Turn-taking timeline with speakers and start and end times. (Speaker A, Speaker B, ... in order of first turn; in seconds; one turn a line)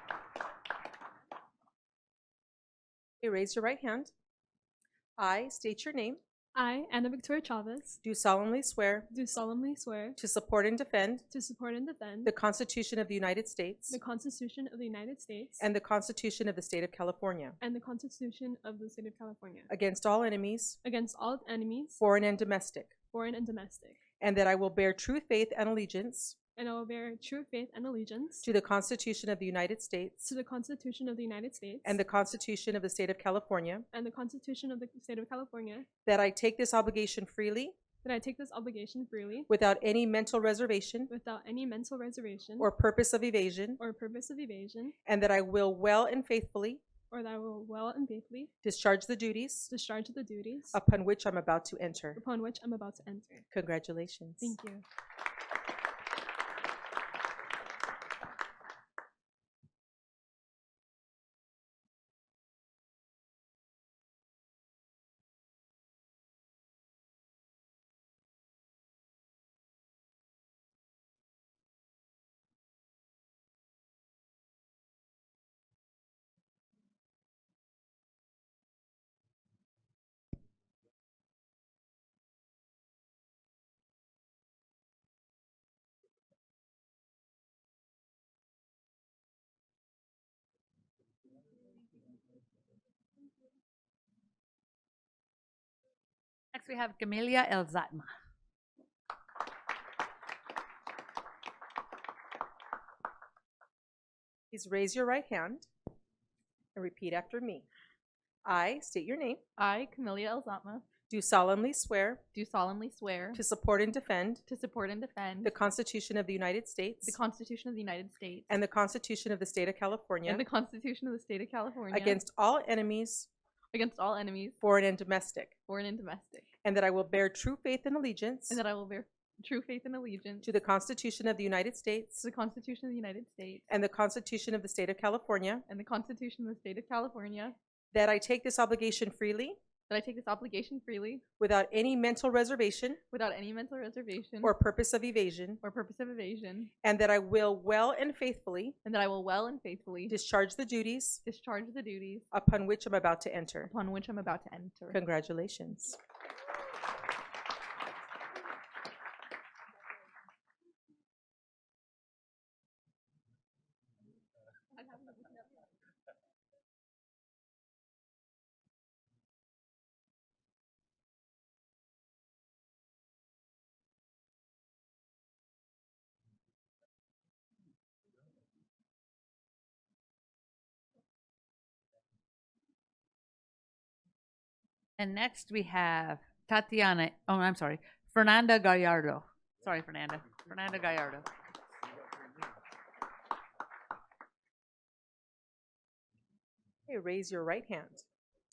Speaker A: 3.2-4.1
Speaker A: 5.2-6.2
Speaker B: 6.6-8.0
Speaker A: 8.0-9.1
Speaker B: 9.1-10.2
Speaker A: 10.2-11.2
Speaker B: 11.3-12.3
Speaker A: 12.2-14.0
Speaker B: 13.9-15.6
Speaker A: 15.6-17.6
Speaker B: 17.6-19.7
Speaker A: 19.7-20.8
Speaker B: 20.9-22.0
Speaker A: 22.0-22.9
Speaker B: 23.1-24.0
Speaker A: 24.2-26.4
Speaker B: 26.6-28.4
Speaker A: 28.4-30.3
Speaker B: 30.3-31.9
Speaker A: 31.9-33.9
Speaker B: 33.9-35.9
Speaker A: 36.1-37.8
Speaker B: 38.0-39.5
Speaker A: 39.5-41.1
Speaker B: 41.1-42.7
Speaker A: 42.6-43.8
Speaker B: 43.8-44.9
Speaker A: 45.1-46.8
Speaker B: 47.1-48.5
Speaker A: 48.6-49.7
Speaker B: 49.7-50.7
Speaker A: 50.7-52.2
Speaker B: 52.2-53.4
Speaker A: 53.5-54.6
Speaker B: 54.4-54.8
Speaker C: 96.5-98.1
Speaker A: 104.5-105.7
Speaker A: 106.8-107.7
Speaker A: 108.5-109.4
Speaker D: 109.6-110.8
Speaker A: 111.1-112.2
Speaker D: 112.3-113.4
Speaker A: 113.3-114.4
Speaker D: 114.5-115.5
Speaker A: 115.4-117.2
Speaker D: 117.0-118.5
Speaker A: 118.5-120.4
Speaker D: 120.2-122.2
Speaker A: 121.9-123.3
Speaker D: 123.7-124.6
Speaker A: 124.6-125.5
Speaker D: 125.7-126.5
Speaker A: 126.6-128.6
Speaker D: 128.5-130.5
Speaker A: 130.4-132.2
Speaker D: 132.2-133.7
Speaker A: 133.7-135.6
Speaker D: 135.7-137.6
Speaker A: 137.9-139.6
Speaker D: 139.9-141.2
Speaker A: 141.4-143.0
Speaker D: 143.1-144.6
Speaker A: 144.4-145.6
Speaker D: 145.6-146.7
Speaker A: 146.8-148.8
Speaker D: 148.8-150.2
Speaker A: 150.1-151.2
Speaker D: 151.2-152.3
Speaker A: 152.3-153.7
Speaker D: 153.7-155.0
Speaker A: 154.9-156.0
Speaker C: 185.0-191.3
Speaker A: 196.9-198.0